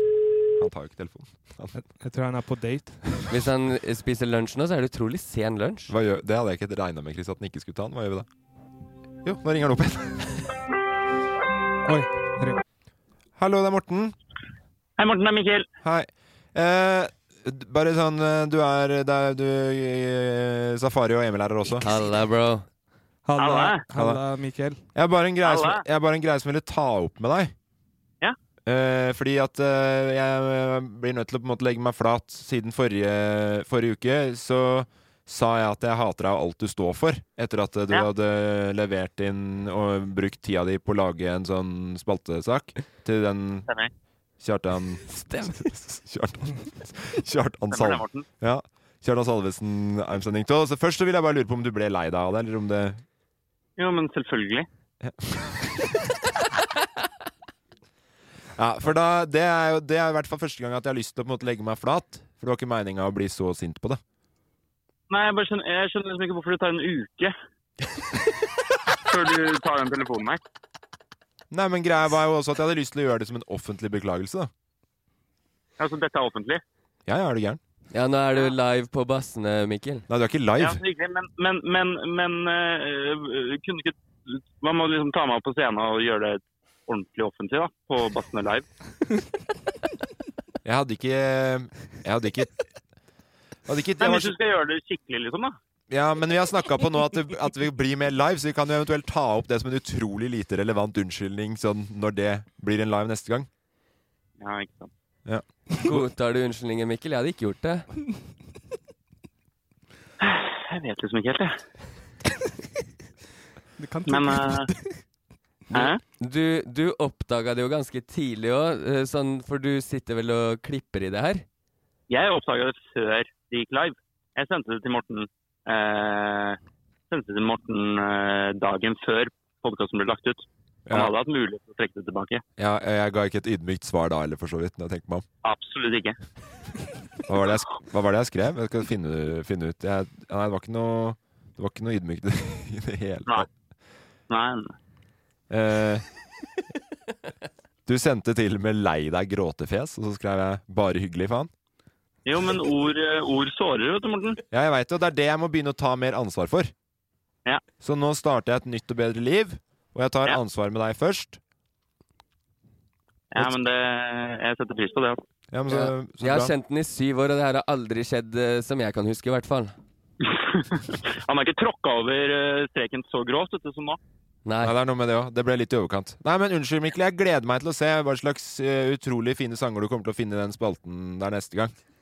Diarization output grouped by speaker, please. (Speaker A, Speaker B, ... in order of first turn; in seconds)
Speaker A: 0.6-1.8, 5.9-8.3, 9.2-10.5, 13.3-14.1, 15.8-21.9, 23.9-24.2, 24.9-27.5, 28.6-43.7, 44.4-53.0, 55.0-55.6, 58.5-64.0, 71.5-74.5, 77.1-77.6, 80.1-80.8, 90.6-92.6, 93.7-94.3, 95.9-103.5, 105.2-106.0, 130.9-131.1, 132.6-135.2, 137.2-143.5, 145.5-146.1, 147.8-151.5, 154.5-156.7, 157.8-161.4, 165.5-166.5, 174.6-181.7
Speaker B: 1.8-3.0, 11.8-12.6, 23.2-24.8, 113.8-114.9
Speaker C: 3.3-5.9, 21.8-22.6, 77.9-80.0, 105.8-107.9, 115.7-121.4, 165.7-169.7, 174.4-174.7
Speaker D: 15.0-15.7, 23.4-23.8, 25.4-25.8, 47.7-48.2, 53.8-54.7, 65.1-67.3, 69.1-70.4, 75.8-76.6, 80.6-88.7, 94.0-95.5, 104.4-104.9, 110.2-111.6, 114.1-114.7, 115.7-116.0, 122.1-126.6, 127.1-132.4, 135.4-136.2, 144.3-144.7, 152.2-154.4, 163.3-165.2, 170.2-174.0